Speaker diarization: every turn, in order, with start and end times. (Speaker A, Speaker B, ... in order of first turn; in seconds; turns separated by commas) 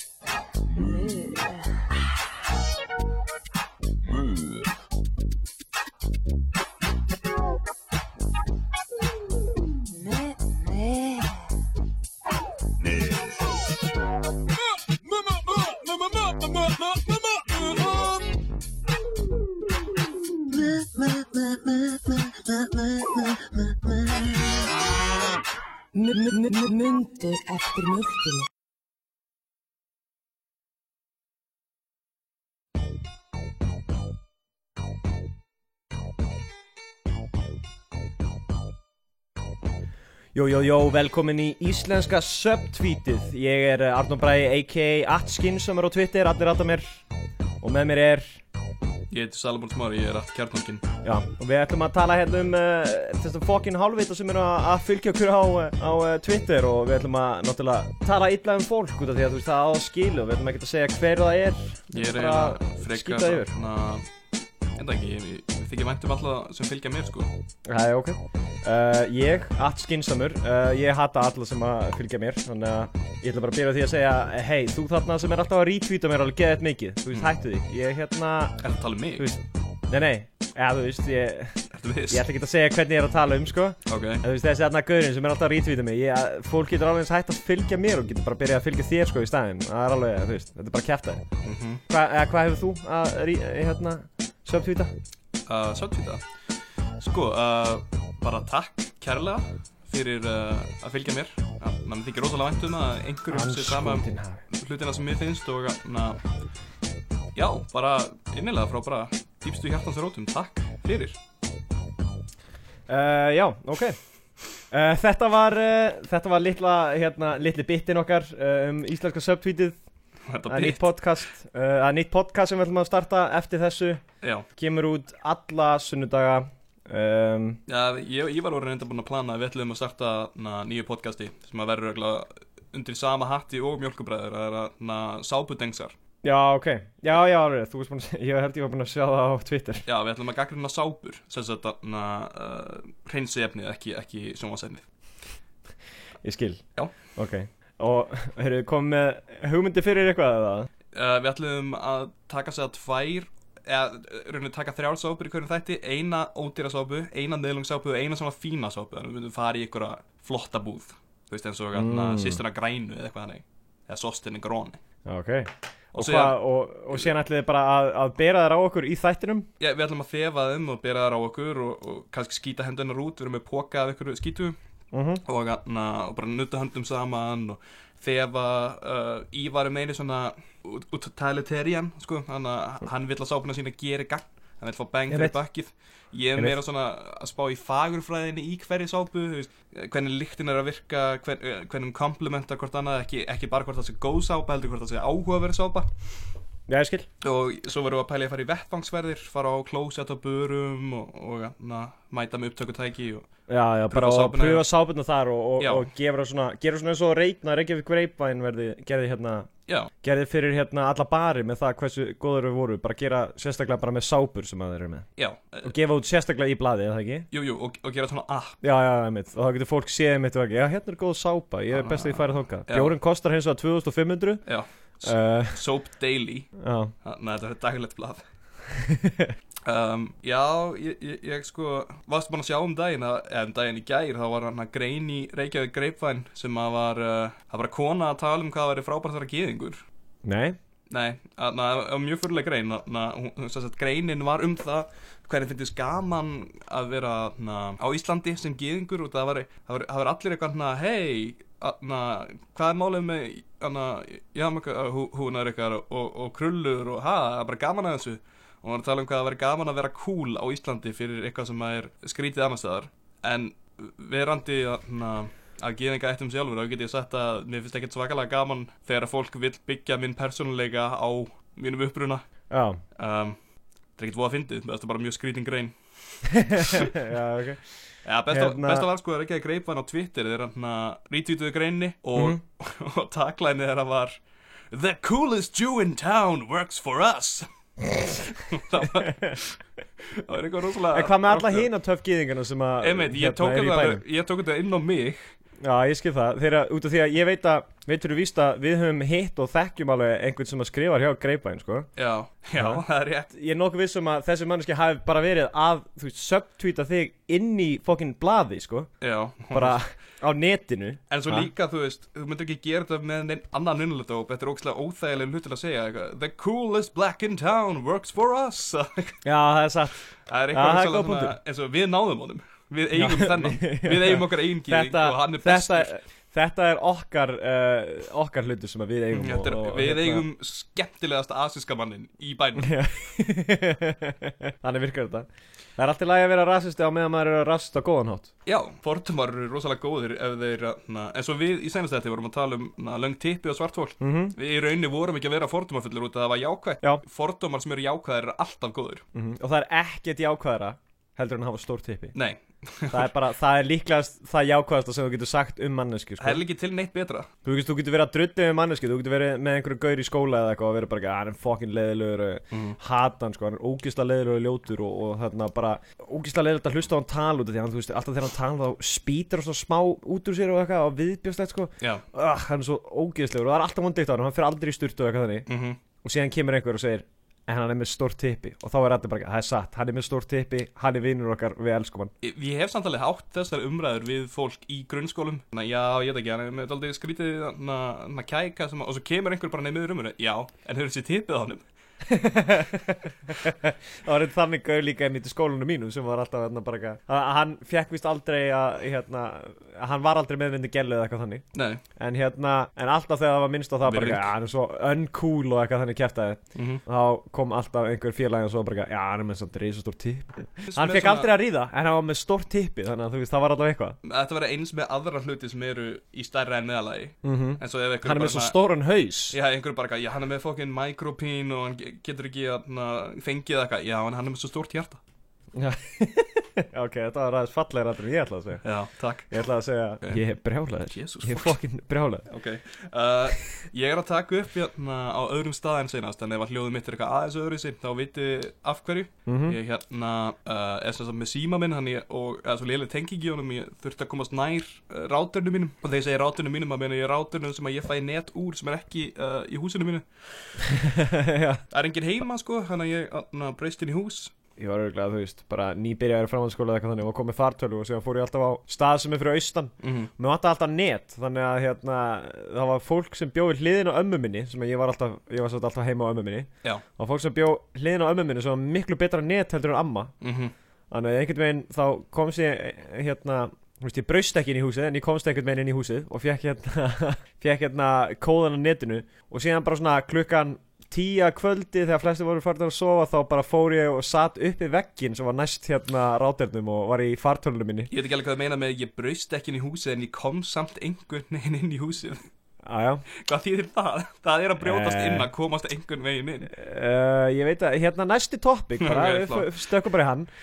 Speaker A: 0.7-1.8, Speaker A: 9.9-11.4, Speaker A: 15.7-16.6, Speaker A: 17.3-18.1, Speaker A: 20.5-23.9, Speaker A: 25.9-28.4, Speaker B: 40.3-47.0, Speaker B: 47.6-48.4, Speaker C: 49.1-50.8, Speaker B: 51.0-63.5, Speaker C: 61.9-64.1, Speaker C: 64.8-67.3, Speaker B: 67.6-78.6, Speaker C: 78.6-79.3, Speaker B: 79.2-91.2, Speaker C: 81.7-82.2, Speaker C: 83.9-84.2, Speaker C: 91.4-91.8, Speaker B: 91.9-94.9, Speaker C: 95.5-96.2, Speaker C: 97.0-106.2, Speaker B: 103.3-104.4, Speaker C: 107.3-111.2, Speaker B: 112.9-114.0, Speaker B: 114.7-119.8, Speaker C: 120.3-120.9, Speaker B: 120.5-124.0, Speaker B: 124.5-127.6, Speaker C: 127.7-135.9, Speaker B: 136.2-139.8, Speaker C: 139.8-144.8, Speaker B: 146.2-146.6, Speaker B: 147.1-150.7, Speaker C: 150.9-164.8, Speaker B: 161.7-162.4, Speaker B: 165.0-169.5, Speaker C: 165.9-166.4, Speaker C: 169.6-174.6, Speaker B: 174.9-175.2, Speaker C: 175.2-195.9, Speaker B: 185.1-185.4, Speaker B: 196.7-197.1, Speaker C: 197.2-203.3, Speaker B: 203.5-209.5, Speaker C: 203.9-204.7, Speaker C: 205.6-205.9, Speaker B: 210.0-215.1, Speaker C: 215.2-215.7, Speaker B: 215.6-217.3, Speaker C: 217.3-218.6, Speaker B: 218.6-224.4, Speaker C: 221.7-222.9, Speaker C: 224.4-226.5, Speaker B: 225.0-225.6, Speaker B: 226.6-226.9, Speaker C: 227.0-228.2, Speaker B: 228.7-229.3, Speaker C: 229.6-239.8, Speaker B: 240.2-240.6, Speaker C: 240.9-272.2, Speaker B: 272.5-272.8, Speaker C: 272.9-273.4, Speaker C: 274.0-276.9, Speaker B: 276.4-277.7, Speaker C: 278.0-284.2, Speaker B: 278.3-278.9, Speaker C: 284.7-291.7, Speaker B: 290.9-294.0, Speaker C: 292.8-295.3, Speaker B: 295.6-301.9, Speaker C: 301.9-303.3, Speaker B: 302.6-308.9, Speaker C: 309.0-309.8, Speaker B: 309.5-311.5, Speaker C: 311.1-319.2, Speaker B: 319.2-320.0, Speaker C: 320.2-325.9, Speaker B: 320.5-321.3, Speaker B: 322.9-330.2, Speaker C: 329.1-332.8, Speaker B: 332.6-338.3, Speaker C: 338.4-349.0, Speaker B: 344.0-344.4, Speaker B: 349.1-352.1, Speaker C: 352.1-353.1, Speaker B: 352.9-356.4, Speaker C: 356.2-357.3, Speaker B: 357.4-375.5, Speaker C: 362.5-362.8, Speaker C: 375.5-375.8, Speaker B: 376.0-382.1, Speaker C: 382.2-391.6, Speaker B: 392.1-401.4, Speaker C: 401.5-401.8, Speaker B: 401.9-414.0, Speaker C: 403.8-404.3, Speaker C: 406.5-406.8, Speaker C: 410.6-411.3, Speaker C: 414.0-418.6, Speaker B: 417.2-419.4, Speaker C: 419.3-425.0, Speaker B: 425.5-428.6, Speaker C: 428.6-429.3, Speaker B: 429.3-432.3, Speaker C: 430.9-431.5, Speaker C: 432.3-450.5, Speaker B: 439.2-439.6, Speaker B: 450.7-451.6, Speaker C: 451.7-454.3, Speaker B: 454.6-470.1, Speaker C: 459.8-460.1, Speaker C: 470.2-470.5, Speaker B: 470.9-487.9, Speaker C: 487.9-492.2, Speaker B: 492.6-493.0, Speaker C: 493.2-496.5, Speaker B: 494.6-495.3, Speaker B: 496.5-500.3, Speaker C: 498.8-499.5